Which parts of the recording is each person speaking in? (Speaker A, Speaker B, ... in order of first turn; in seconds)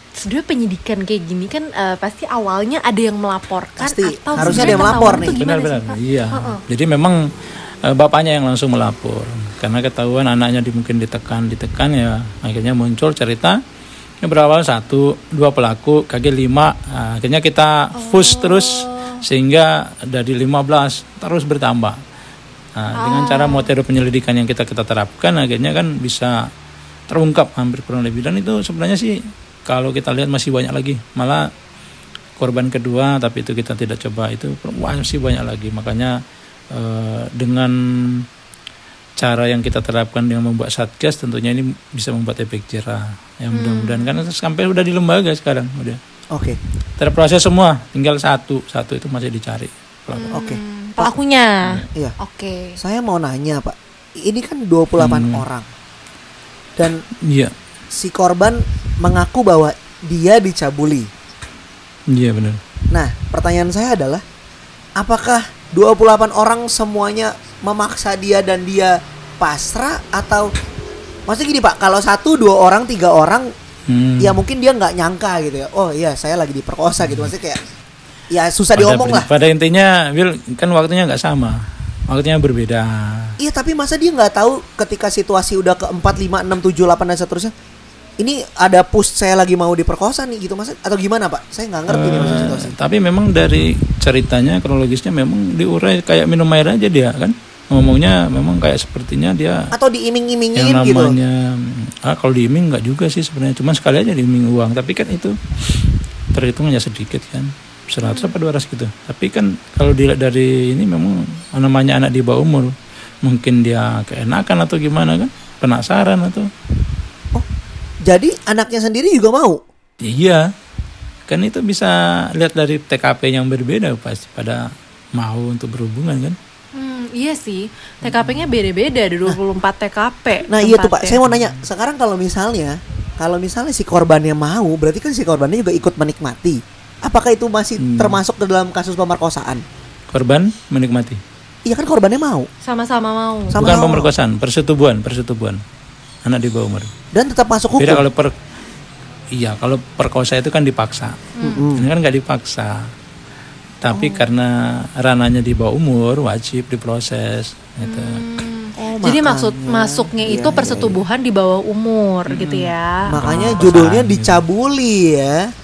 Speaker A: 0.1-6.6, 17.9-19.2, 22.9-23.7, 43.5-44.1, 50.1-52.8, 126.8-131.2, 142.6-143.6, 151.4-151.6, 157.8-163.2
Speaker B: 3.8-5.3, 46.3-46.6, 50.3-51.1, 52.8-55.7, 56.8-57.0, 57.9-61.1, 62.9-64.2, 65.0-70.5, 71.3-73.5, 74.2-77.6, 78.3-79.3, 83.4-87.5, 88.2-92.7, 99.7-101.2, 118.0-119.6, 130.5-139.6, 141.7-142.5, 143.5-144.1, 147.1-148.0, 151.4-151.9, 153.9-154.2, 158.8-161.0, 163.1-165.5
Speaker C: 4.4-7.2, 7.8-13.6, 14.2-22.0, 22.8-26.5, 27.1-31.5, 32.4-36.1, 36.7-38.2, 39.2-46.0, 47.0-50.4, 55.0-55.4, 57.2-57.5, 62.1-62.6, 73.9-74.4, 77.0-77.3, 78.8-83.3, 91.9-99.7, 100.5-116.5, 120.0-120.5, 121.3-126.4, 131.3-131.6, 137.8-138.2, 140.1-141.2, 143.6-145.6, 146.2-146.9, 147.8-148.3, 149.3-152.9, 153.8-158.2, 162.3-164.4